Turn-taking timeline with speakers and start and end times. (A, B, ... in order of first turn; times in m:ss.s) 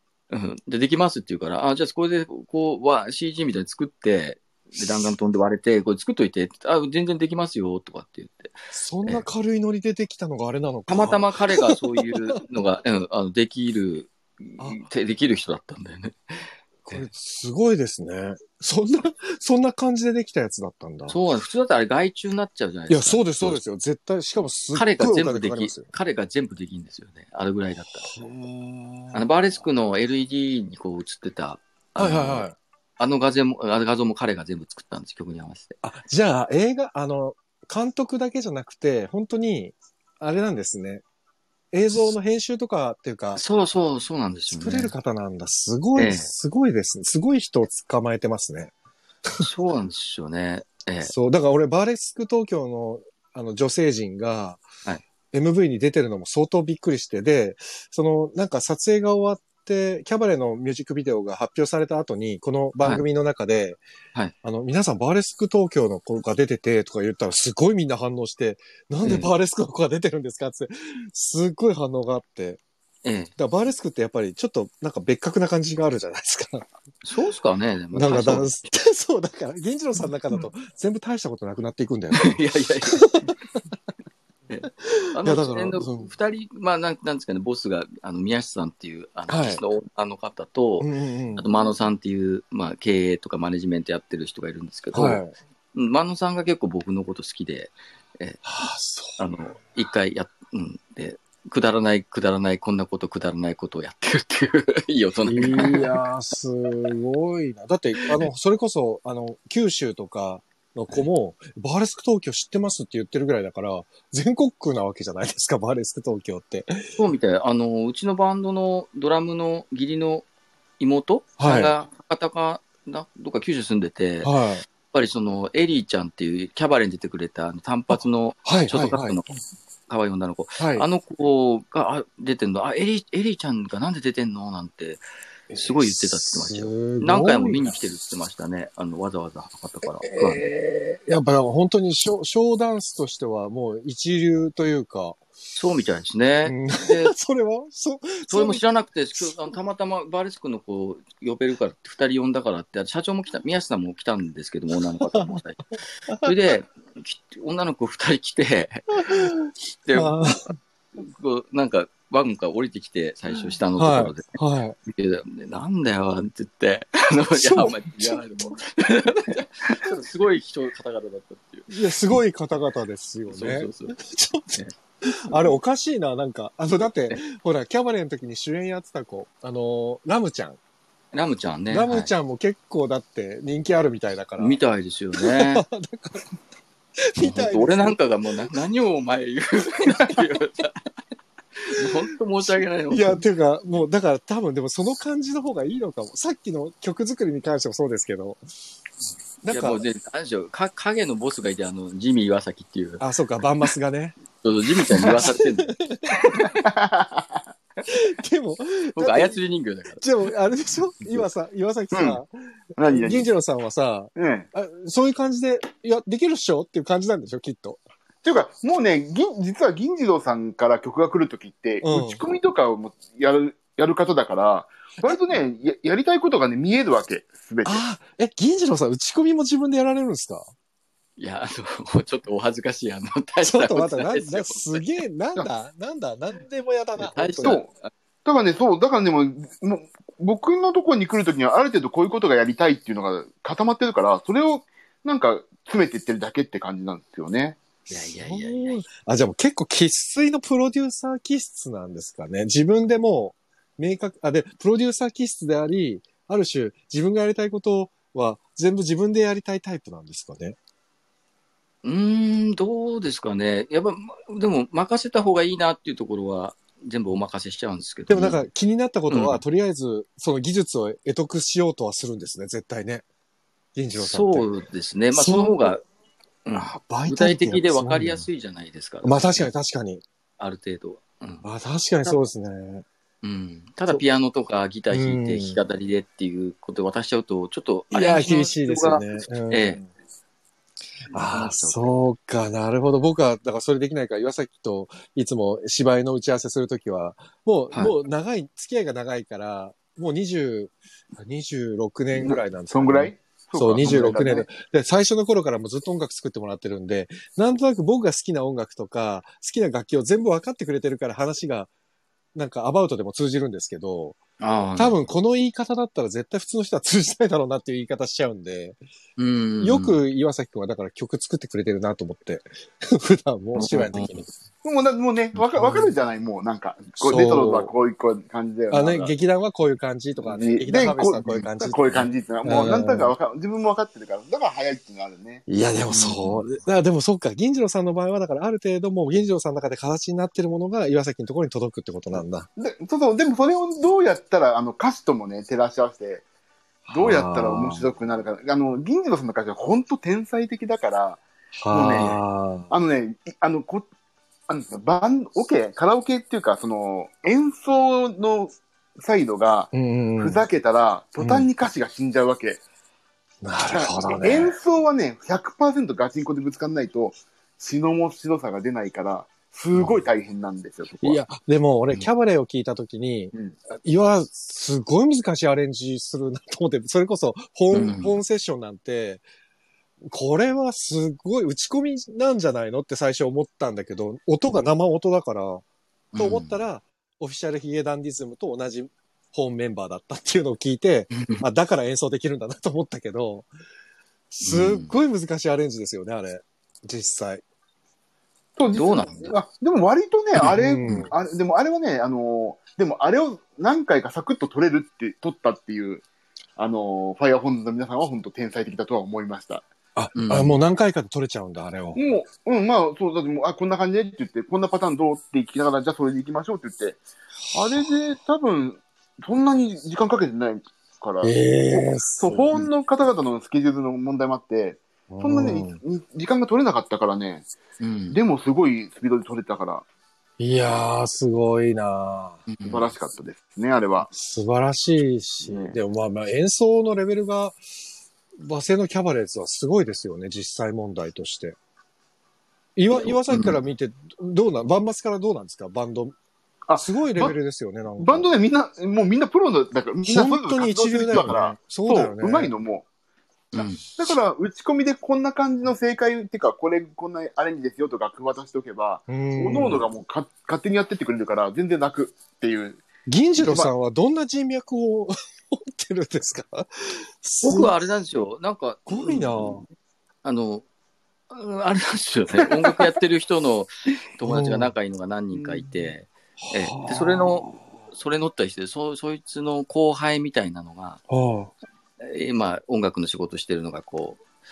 0:00.3-0:09.2 A
0:08.7-0:12.3 B
0:10.9-0:17.1 A
0:14.6-0:14.8 B
0:16.8-0:21.2 B
0:21.1-0:23.6 A
0:22.9-0:25.9 B
0:24.7-0:28.2 A
0:27.9-0:29.2 B
0:29.1-0:32.5 A
0:32.0-0:32.6 B
0:33.0-0:35.8 A
0:35.8-0:41.0 B
0:41.7-0:43.4 B
0:43.4-0:44.9 A
0:44.5-0:48.7 B
0:46.0-0:46.3 A
0:49.4-0:51.1 A
0:51.0-0:54.6 B
0:55.3-1:03.8 B
1:04.4-1:12.6 B
1:09.0-1:09.3 A
1:13.0-1:13.3 A
1:13.4-1:16.7 B
1:17.0-1:18.6 A
1:17.9-1:22.4 B
1:22.2-1:23.2 A
1:22.9-1:23.3 B
1:24.5-1:35.2 A
1:24.8-1:26.1 B
1:29.3-1:29.6 B
1:30.8-1:31.4 B
1:34.9-1:35.3 B
1:35.7-1:38.4 A
1:38.4-1:39.2 B
1:39.2-1:46.0 A
1:45.2-1:56.9 B
1:57.0-2:00.2 A
2:00.8-2:09.3 A
2:01.4-2:01.7 B
2:04.2-2:04.6 B
2:08.4-2:09.2 B
2:09.9-2:15.0 A
2:10.6-2:10.8 B
2:15.5-2:17.7 B
2:15.5-2:20.5 A
2:20.0-2:25.2 B
2:25.5-2:27.1 A
2:26.4-2:28.6 B
2:28.3-2:35.7 A
2:29.2-2:29.4 B
2:35.1-2:35.4 B
2:36.1-2:36.3 B
2:36.2-2:39.3 A
2:39.0-2:40.6 B
2:39.8-2:40.2 A
2:41.0-2:51.8 A
2:43.8-2:44.8 B
2:47.3-2:48.6 B
2:51.7-3:00.6 B
2:53.3-2:54.0 A
3:01.1-3:02.1 A
3:01.7-3:04.6 B
3:04.4-3:05.6 A
3:05.2-3:06.2 B
3:07.1-3:08.0 B
3:07.2-3:10.9 A
3:11.6-3:13.2 A
3:12.5-3:18.4 B
3:19.4-3:19.8 B
3:19.5-3:23.0 A
3:23.0-3:24.2 B
3:24.4-3:26.5 A
3:24.8-3:26.4 B
3:26.5-3:27.3 C
3:27.8-3:29.4 B
3:28.9-3:30.0 A
3:30.0-3:32.3 B
3:31.9-3:32.2 C
3:32.8-3:33.3 C
3:32.8-3:37.8 B
3:34.2-3:34.5 C
3:38.2-3:47.8 C
3:41.8-3:42.2 B
3:47.6-3:50.5 B
3:51.2-3:54.9 A
3:53.4-3:57.6 B
3:57.0-3:57.9 A
3:57.4-3:57.7 C
3:58.2-4:07.6 C
4:07.9-4:20.6 B
4:07.9-4:08.8 A
4:21.8-4:28.4 A
4:28.1-4:33.0 B
4:29.1-4:29.4 A
4:33.7-4:34.5 B
4:34.0-4:35.8 A
4:35.1-4:35.7 B
4:36.4-4:39.5 A
4:36.5-4:38.3 B
4:39.0-4:40.0 B
4:40.4-4:41.4 A
4:41.4-4:42.8 B
4:43.2-4:49.8 A
4:44.9-4:45.6 B
4:47.9-4:49.9 B
4:51.1-5:11.7 B
4:51.3-4:52.0 A
5:02.1-5:04.4 C
5:12.3-5:14.2 B
5:14.4-5:15.0 A
5:14.8-5:18.8 B
5:19.2-5:20.0 A
5:19.6-5:24.3 B
5:23.5-5:24.2 A
5:24.6-5:29.1 C
5:25.5-5:25.9 B
5:27.0-5:27.7 B
5:28.7-5:33.1 B
5:30.2-5:35.4 C
5:35.5-5:42.5 B
5:35.9-5:36.4 A
5:42.6-5:46.2 C
5:46.8-5:47.8 B
5:46.9-5:52.2 C
5:51.6-5:52.7 B
5:51.8-5:52.2 A
5:52.7-5:53.8 C
5:54.5-6:02.6 C
5:59.7-6:00.4 B
6:01.2-6:01.5 B
6:03.4-6:04.6 B
6:03.7-6:11.2 C
6:09.7-6:10.0 A
6:11.0-6:19.2 B
6:17.7-6:18.2 A
6:20.1-6:25.6 B
6:26.1-6:26.5 A
6:26.2-6:33.5 B
6:31.1-6:31.4 A
6:34.3-6:37.4 B
6:34.4-6:34.9 A
6:38.6-6:46.0 C
6:38.7-6:39.3 A
6:40.4-6:41.0 A
6:40.5-6:41.1 B
6:46.6-6:49.6 C
6:49.9-6:52.0 B
6:50.1-6:50.6 A
6:51.9-7:07.5 C
7:01.2-7:02.7 B
7:05.1-7:05.8 B
7:07.8-7:08.2 A
7:08.1-7:09.8 C
7:10.4-7:12.4 B
7:12.5-7:12.9 A
7:12.6-7:14.1 C
7:14.1-7:17.6 B
7:15.4-7:15.8 C
7:18.4-7:21.6 B
7:22.8-7:26.1 B
7:23.3-7:23.6 A
7:26.7-7:27.3 C
7:26.8-7:28.3 B
7:28.0-7:32.8 C
7:30.0-7:32.5 B
7:33.5-7:33.8 A
7:33.6-7:42.8 C
7:39.1-7:39.8 B
7:43.1-7:47.7 B
7:43.4-7:43.7 C
7:47.4-7:49.7 A
7:48.9-7:49.6 B
7:50.2-7:50.6 A
7:51.3-8:01.0 A
7:54.2-7:54.7 B
7:56.4-7:57.6 B
8:01.1-8:01.5 B
8:02.0-8:04.2 A